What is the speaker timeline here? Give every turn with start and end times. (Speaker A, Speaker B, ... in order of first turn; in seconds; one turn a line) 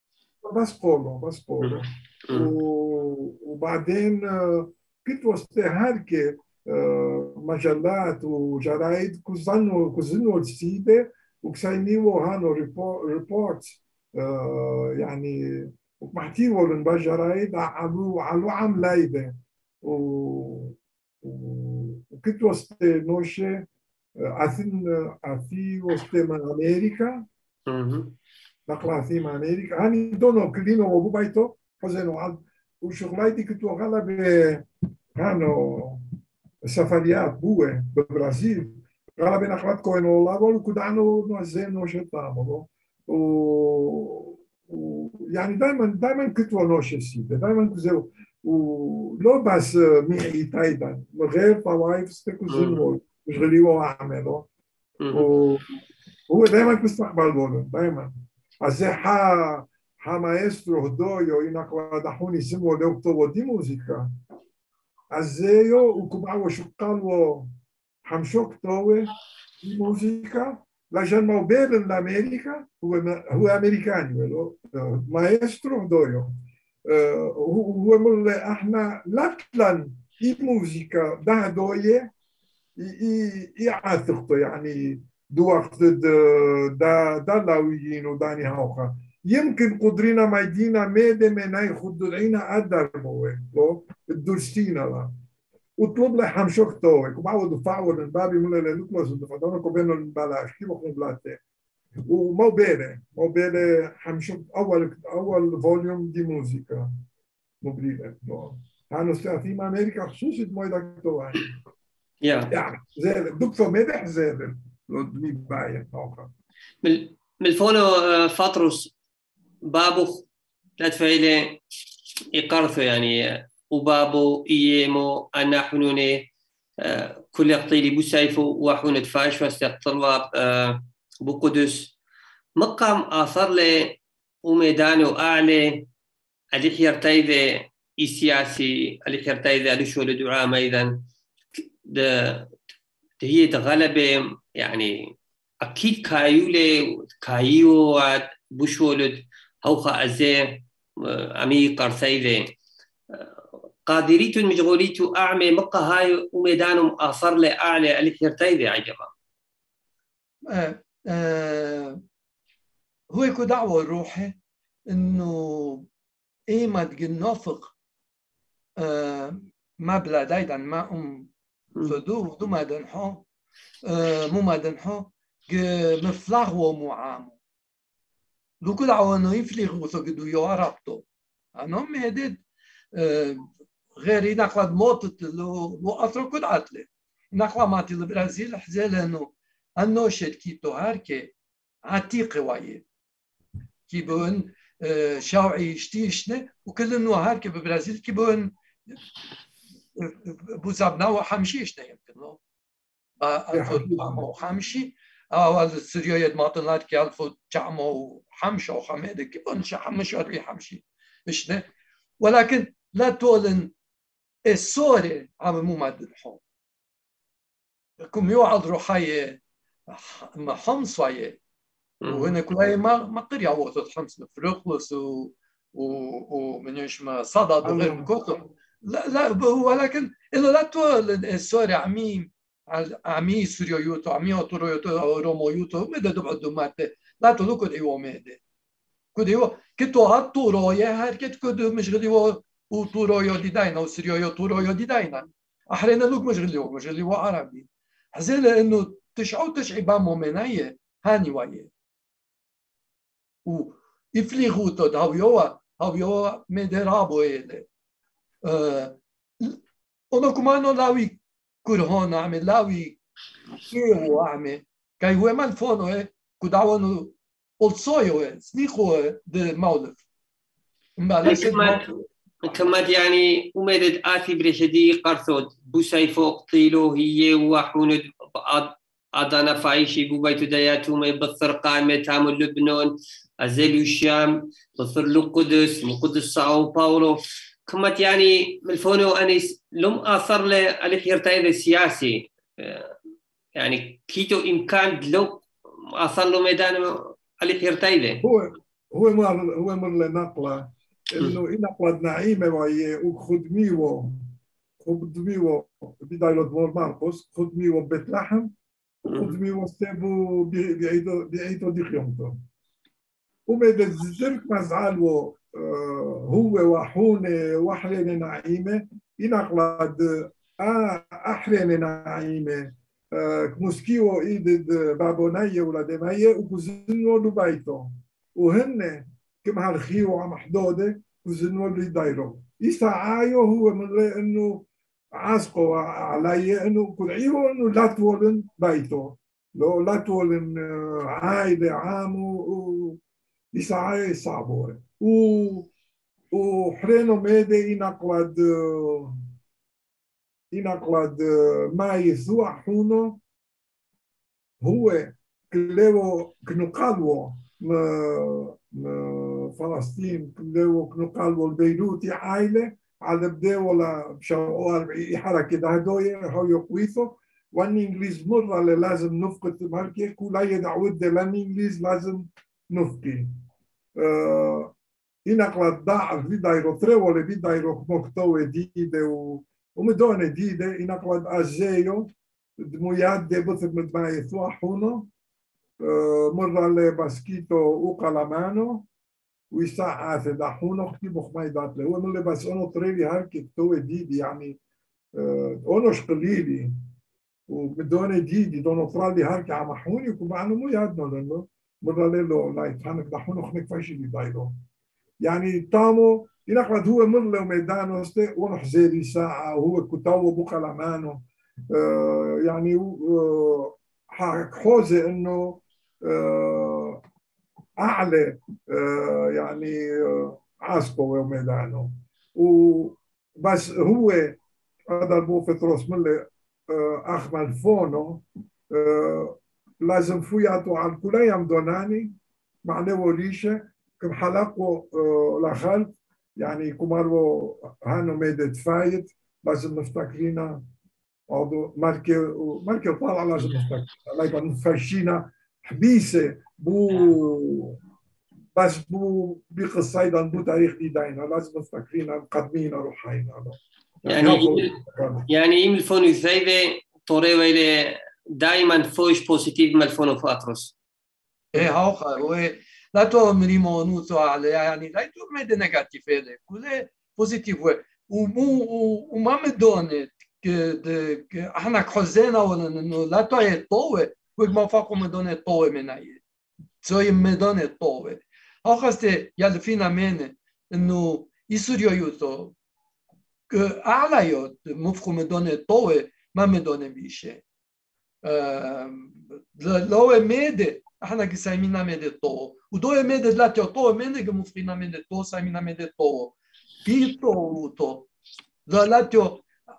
Speaker A: 0.4-23.7
Speaker B: 1.6-2.5
Speaker A: 24.2-27.2
Speaker B: 27.7-28.1
Speaker A: 28.7-36.0
Speaker A: 36.6-54.5
Speaker B: 52.5-52.9
Speaker B: 55.0-55.3
Speaker A: 55.1-55.6
Speaker A: 56.3-58.1
Speaker A: 58.6-64.1
Speaker A: 65.1-67.5
Speaker A: 68.0-69.1
Speaker A: 69.6-76.3
Speaker A: 76.9-82.1
Speaker A: 82.8-95.1
Speaker A: 95.8-101.4
Speaker A: 102.1-106.9
Speaker A: 107.6-111.5
Speaker B: 112.2-112.5
Speaker A: 112.5-116.3
Speaker B: 116.8-118.9
Speaker B: 119.7-120.3
Speaker B: 120.8-121.6
Speaker B: 122.3-126.3
Speaker B: 126.8-131.9
Speaker B: 132.6-135.9
Speaker B: 136.5-141.0
Speaker B: 141.6-142.5
Speaker B: 143.2-152.5
Speaker B: 153.9-159.1
Speaker C: 160.5-162.0
Speaker C: 163.1-164.4
Speaker C: 164.9-165.9
Speaker C: 166.5-167.7
Speaker C: 168.8-171.3
Speaker B: 171.8-172.0
Speaker C: 171.8-173.2
Speaker C: 173.9-177.4
Speaker C: 178.6-181.0
Speaker C: 181.6-182.4
Speaker C: 182.9-191.3
Speaker C: 191.9-192.8
Speaker C: 193.9-198.6
Speaker C: 200.0-202.4
Speaker C: 203.2-211.7
Speaker A: 203.5-204.2
Speaker C: 212.2-213.7
Speaker C: 214.5-216.4
Speaker C: 218.0-221.4
Speaker B: 222.0-222.3
Speaker C: 222.1-238.4
Speaker A: 227.6-228.1
Speaker C: 239.2-251.7
Speaker C: 253.5-257.7
Speaker C: 258.4-259.6
Speaker C: 260.1-263.0
Speaker C: 263.7-270.1
Speaker C: 271.0-271.9
Speaker B: 271.2-271.9
Speaker B: 272.4-292.9
Speaker B: 293.6-298.2
Speaker A: 298.2-304.2
Speaker A: 304.8-308.5
Speaker A: 309.1-312.4
Speaker B: 309.1-309.4
Speaker A: 313.5-343.0
Speaker A: 343.5-345.7
Speaker A: 346.3-349.1
Speaker A: 350.5-353.2
Speaker A: 354.6-373.3
Speaker A: 374.0-374.7
Speaker A: 375.3-385.1
Speaker A: 385.8-388.9
Speaker A: 389.5-394.6
Speaker A: 395.2-396.7
Speaker A: 397.5-404.5
Speaker A: 405.2-417.0
Speaker A: 417.8-432.1
Speaker A: 432.6-440.6
Speaker A: 441.3-447.8
Speaker A: 448.6-455.3
Speaker B: 454.1-454.8
Speaker B: 455.3-460.8
Speaker C: 461.5-476.2
Speaker C: 476.8-482.5
Speaker C: 483.5-487.4
Speaker C: 488.2-498.1
Speaker C: 498.7-499.5